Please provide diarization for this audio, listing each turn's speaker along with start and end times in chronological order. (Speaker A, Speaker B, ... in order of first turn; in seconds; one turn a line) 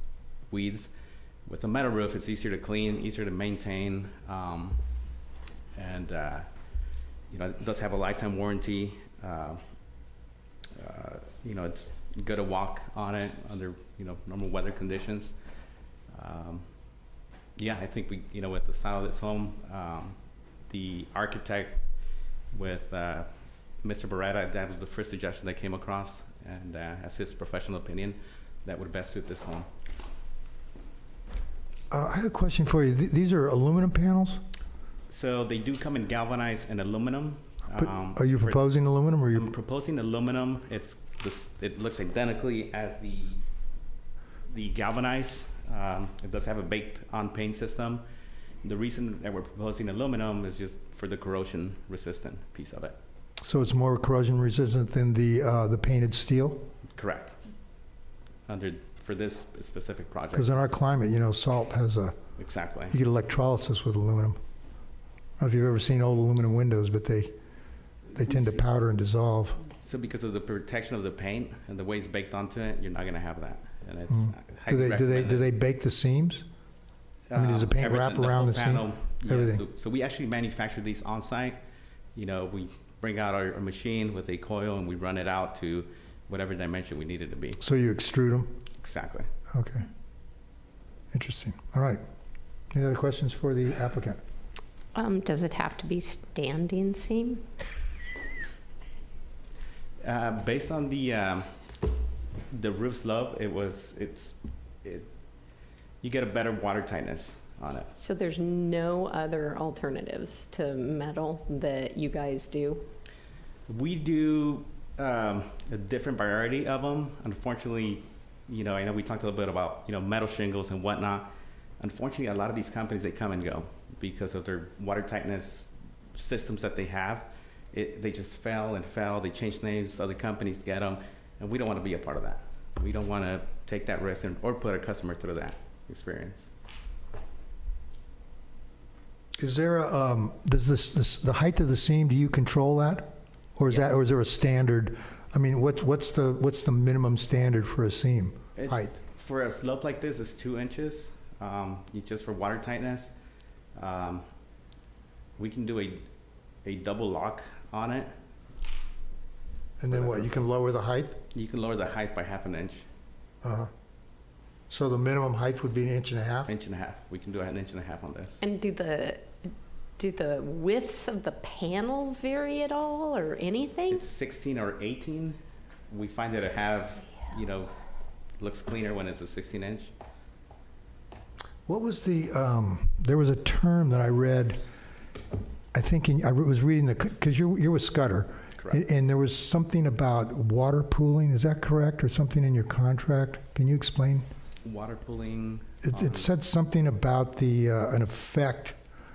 Speaker A: 0.5-0.9
Speaker A: 1.5-4.8
Speaker A: 5.8-6.5
Speaker A: 7.3-9.6
Speaker A: 10.8-15.4
Speaker A: 16.1-16.7
Speaker A: 17.6-21.8
Speaker A: 22.5-23.3
Speaker A: 23.8-29.7
Speaker B: 31.9-34.4
Speaker A: 35.1-38.6
Speaker B: 37.8-39.5
Speaker A: 39.3-43.4
Speaker A: 44.5-48.0
Speaker A: 48.6-53.0
Speaker B: 53.4-56.6
Speaker A: 56.9-57.4
Speaker A: 58.5-60.8
Speaker B: 60.3-62.2
Speaker A: 62.4-63.0
Speaker B: 62.9-64.4
Speaker B: 65.4-67.3
Speaker B: 68.1-69.6
Speaker A: 69.7-75.5
Speaker B: 74.1-76.5
Speaker A: 77.3-81.6
Speaker B: 77.3-79.6
Speaker A: 82.2-87.6
Speaker B: 87.6-88.6
Speaker A: 88.8-89.3
Speaker B: 89.5-89.8
Speaker B: 91.1-92.0
Speaker B: 92.7-94.2
Speaker C: 94.9-97.5
Speaker A: 100.0-101.6
Speaker A: 102.5-105.1
Speaker A: 106.0-107.9
Speaker C: 107.9-112.9
Speaker A: 113.7-136.5
Speaker B: 139.4-148.9
Speaker A: 148.6-153.1
Speaker A: 153.8-154.2
Speaker A: 155.4-156.1
Speaker A: 156.6-158.1
Speaker B: 159.8-161.2
Speaker A: 159.9-160.3
Speaker A: 161.3-162.9
Speaker B: 163.4-163.7
Speaker B: 164.7-166.5
Speaker A: 166.5-168.4
Speaker C: 168.4-174.0
Speaker A: 173.9-175.4
Speaker A: 175.9-177.7
Speaker A: 178.4-179.9
Speaker B: 181.7-184.6
Speaker B: 185.7-194.3
Speaker A: 188.6-188.8
Speaker A: 194.6-196.3
Speaker B: 195.8-198.8